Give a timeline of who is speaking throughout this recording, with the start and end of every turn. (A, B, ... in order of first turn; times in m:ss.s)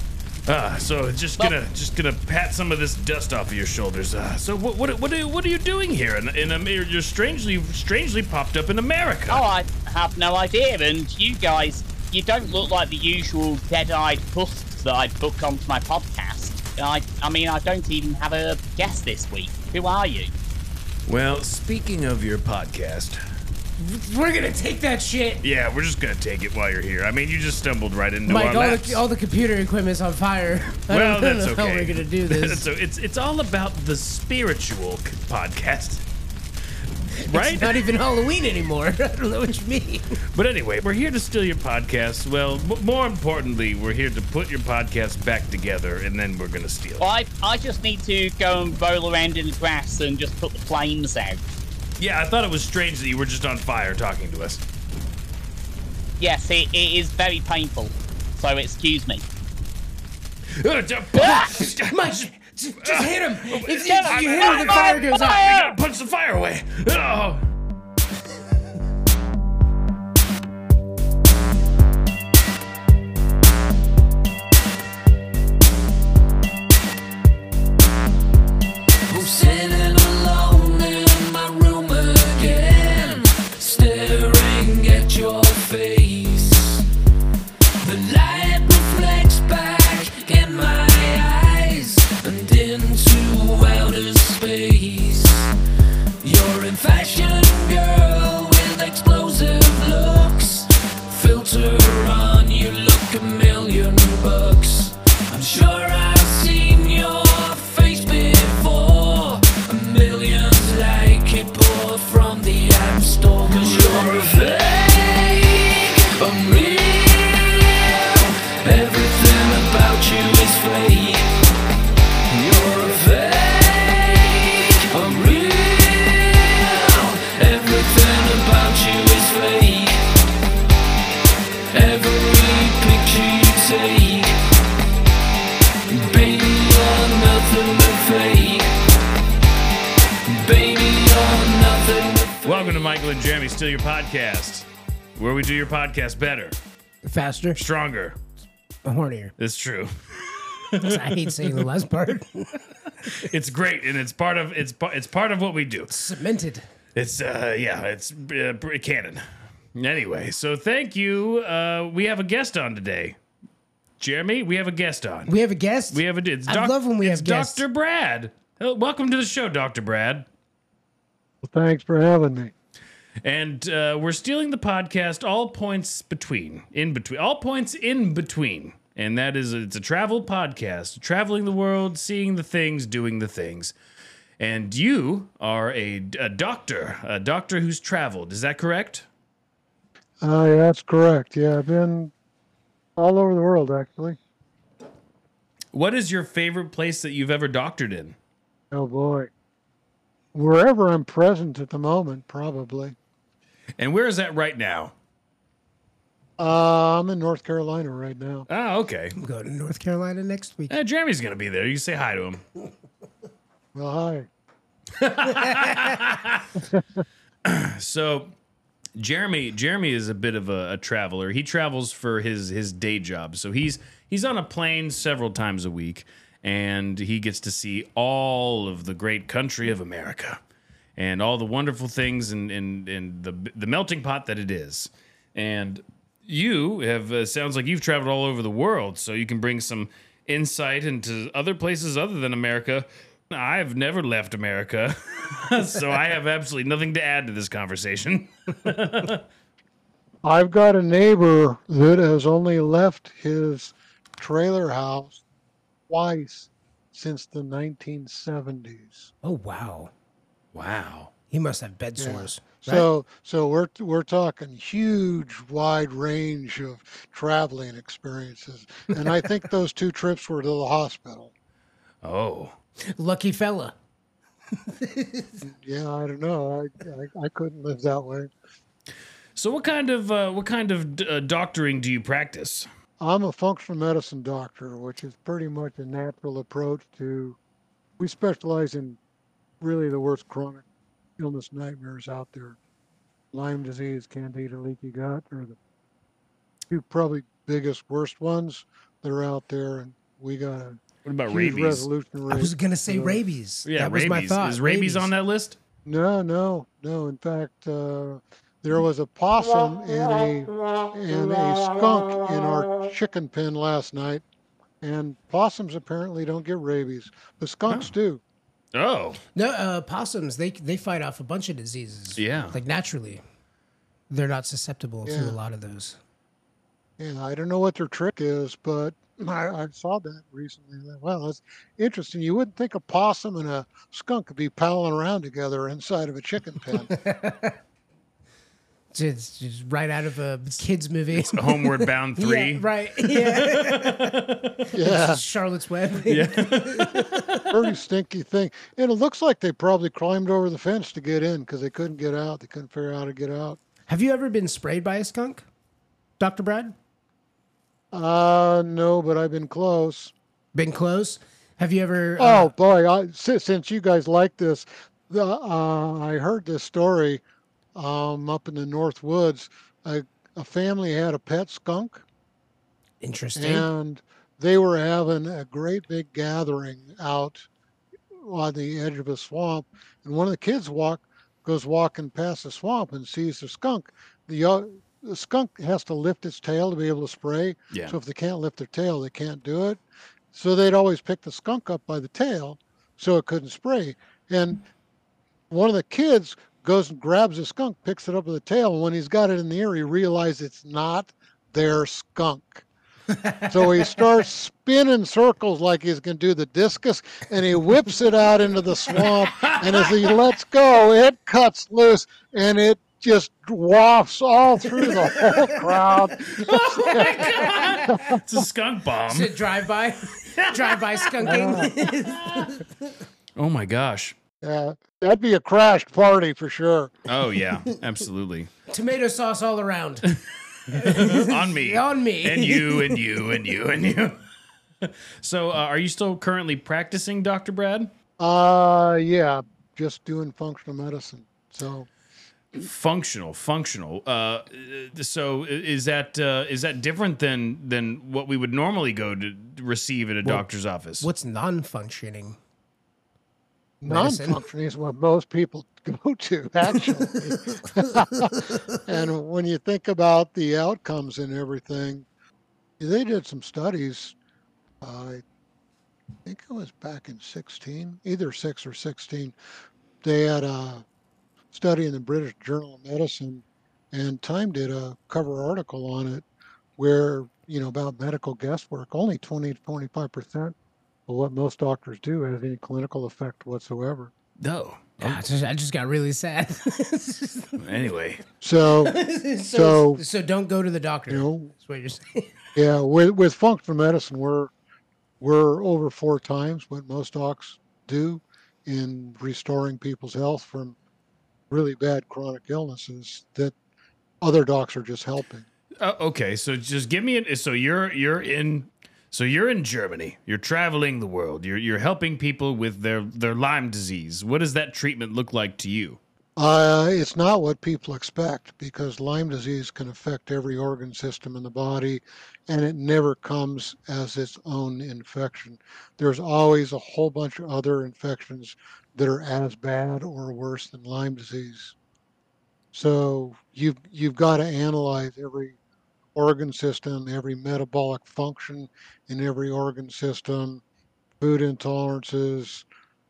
0:00.4-0:09.5 A
0:09.3-0:20.3 B
0:21.0-0:23.2 A
0:23.8-0:25.4 C
0:25.4-0:29.0 A
0:28.2-0:32.6 C
0:30.8-0:36.0 A
0:37.2-0:40.1 C
0:37.2-0:37.8 A
0:40.3-0:47.0 A
0:47.0-0:51.4 B
0:52.0-0:54.6 A
0:56.2-0:59.2 B
1:00.5-1:02.2 A
1:01.1-1:01.5 B
1:01.2-1:05.4 C
1:02.8-1:07.5 A
1:03.8-1:05.7 B
1:19.1-1:26.9 D
1:27.8-1:35.5 D
1:36.2-2:01.3 D
2:02.3-2:10.0 D
2:11.7-2:14.4 D
2:15.9-2:18.7 D
2:20.2-2:22.8 D
2:22.4-2:26.6 A
2:27.0-2:27.6 C
2:27.6-2:28.2 A
2:28.8-2:29.3 C
2:29.4-2:31.6 A
2:30.8-2:32.6 C
2:33.0-2:36.0 A
2:35.9-2:36.6 C
2:37.0-2:43.2 A
2:44.0-2:45.3 A
2:45.3-2:47.6 C
2:45.9-2:50.2 A
2:51.4-2:52.5 E
2:53.2-3:03.7 A
3:04.4-3:09.0 A
3:10.2-3:12.1 E
3:13.0-3:14.2 E
3:15.7-3:18.2 A
3:18.7-3:19.3 E
3:20.3-3:23.0 E
3:23.8-3:24.9 A
3:26.4-3:28.5 E
3:28.5-3:29.2 A
3:29.2-3:30.7 C
3:30.7-3:32.4 A
3:33.7-3:34.3 E
3:35.0-3:36.5 A
3:35.3-3:35.9 C
3:37.4-3:38.3 A
3:39.0-3:50.4 A
3:51.0-4:09.2 A
4:10.2-4:15.2 E
4:15.9-4:19.1 E
4:19.2-4:19.9 C
4:20.5-4:21.1 A
4:21.3-4:22.9 C
4:22.0-4:31.3 E
4:32.0-4:32.6 A
4:32.9-4:33.7 C
4:34.6-4:35.4 C
4:35.4-4:38.3 E
4:39.4-4:42.7 A
4:43.0-4:47.4 E
4:48.0-4:49.0 E
4:49.6-4:50.6 E
4:51.2-4:52.6 E
4:53.3-4:55.6 E
4:56.7-5:03.2 E
5:01.0-5:01.9 A
5:02.3-5:05.1 C
5:03.6-5:05.6 A
5:05.8-5:14.2 E
5:14.8-5:18.2 E
5:17.7-5:17.9 A
5:18.7-5:19.2 A
5:19.3-5:23.2 C
5:22.1-5:22.6 A
5:24.1-5:26.0 C
5:25.0-5:25.4 E
5:27.0-5:36.9 E
5:36.9-5:37.6 C
5:38.9-5:47.5 C
5:41.1-5:44.5 A
5:44.7-5:45.2 E
5:46.0-5:47.5 A
5:47.5-5:53.6 E
5:53.9-5:55.4 C
5:56.2-5:56.7 C
5:57.9-6:00.1 E
6:00.5-6:02.5 C
6:02.2-6:07.2 E
6:07.7-6:12.0 E
6:13.0-6:13.7 C
6:13.4-6:17.5 E
6:18.2-6:29.8 E
6:30.3-6:34.6 E
6:35.5-6:42.6 E
6:43.5-6:58.2 E
6:49.3-6:50.0 A
6:56.2-6:59.3 A
6:56.8-6:58.0 C
6:59.1-7:03.0 C
7:00.2-7:02.5 A
7:01.2-7:01.7 E
7:03.4-7:04.1 A
7:04.4-7:06.9 E
7:07.1-7:08.5 A
7:08.7-7:10.1 C
7:10.1-7:14.2 A
7:10.7-7:13.0 C
7:14.8-7:17.9 A
7:18.2-7:21.9 E
7:22.5-7:31.1 A
7:31.0-7:32.4 C
7:33.8-7:42.0 E
7:33.8-7:34.4 C
7:42.8-7:44.1 E
7:44.8-7:45.2 E
7:46.2-7:49.3 E
7:50.0-7:50.8 E
7:51.5-7:56.2 E
7:56.8-8:00.5 E
8:01.1-8:04.1 E
8:04.4-8:05.2 A
8:05.0-8:07.6 C
8:07.6-8:08.2 A
8:08.4-8:09.0 E
8:08.8-8:12.3 C
8:09.5-8:10.0 E
8:11.1-8:11.5 E
8:12.6-8:14.5 E
8:15.2-8:20.8 E
8:21.5-8:23.5 E
8:24.2-8:25.5 E
8:25.8-8:36.0 A
8:36.4-8:51.8 E
8:52.7-8:55.6 E
8:56.1-9:00.6 E
9:01.2-9:02.6 E